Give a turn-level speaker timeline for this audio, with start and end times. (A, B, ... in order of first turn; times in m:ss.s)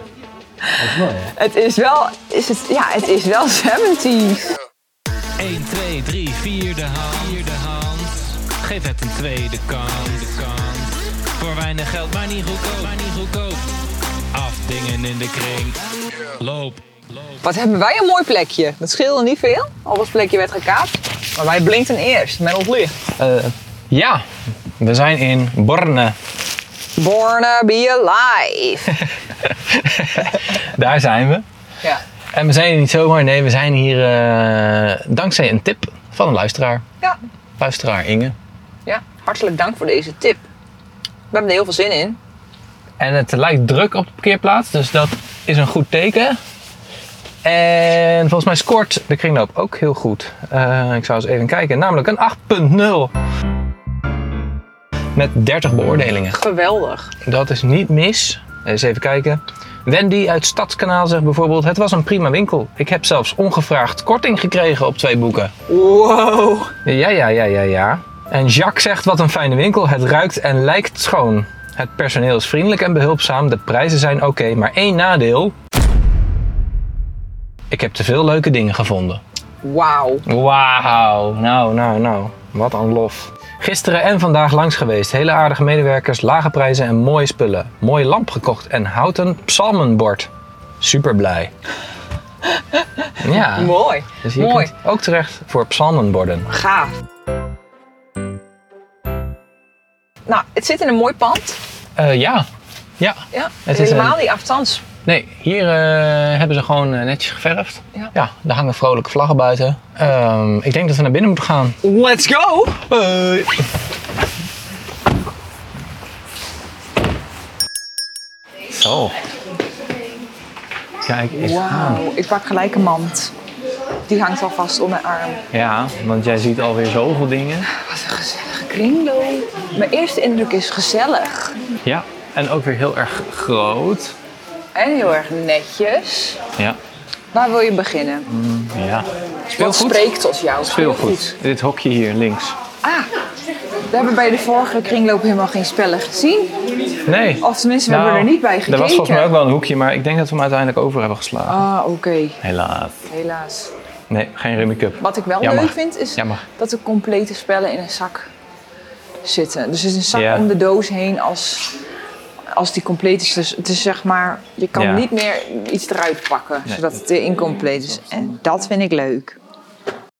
0:00.6-0:04.6 A
0:00.8-0:01.3 B
0:05.4-0:13.6 B
0:14.3-0:17.0 B
0:17.4-0:23.0 A
0:23.2-0:24.2 B
0:24.8-0:26.2 B
0:27.0-0:29.0 A
0:29.4-0:31.4 B
0:32.3-0:36.8 B
0:37.6-0:38.4 B
0:38.8-0:40.4 A
0:41.3-0:42.2 A
0:43.0-0:46.4 B
0:47.4-0:53.1 B
0:55.1-0:56.4 B
0:56.3-0:57.1 A
0:57.2-1:05.5 B
1:05.7-1:06.7 A
1:06.8-1:15.5 B
1:17.7-1:19.2 B
1:19.6-1:20.2 A
1:20.2-1:30.3 B
1:30.8-1:31.5 B
1:32.4-1:34.7 A
1:33.2-1:36.5 B
1:36.5-1:37.0 A
1:40.2-1:41.6 A
1:42.0-1:42.5 B
1:43.0-1:44.2 B
1:43.3-1:44.8 A
1:45.0-1:51.8 B
1:51.8-1:52.8 A
1:52.9-1:53.6 B
1:58.7-1:59.2 B
2:01.0-2:02.0 B
2:01.3-2:03.3 A
2:04.1-2:05.4 A
2:05.5-2:07.7 B
2:07.7-2:11.5 A
2:11.8-2:14.1 B
2:14.7-2:16.4 A
2:17.3-2:18.3 A
2:18.3-2:22.6 B
2:19.5-2:21.4 A
2:23.9-2:26.6 A
2:27.0-2:31.7 B
2:27.4-2:29.3 A
2:31.4-2:32.4 A
2:32.4-2:33.0 B
2:33.1-2:33.7 A
2:34.1-2:36.4 B
2:35.0-2:38.3 A
2:39.2-2:41.7 A
2:40.1-2:40.5 B
2:42.5-2:49.4 A
2:44.7-2:45.1 B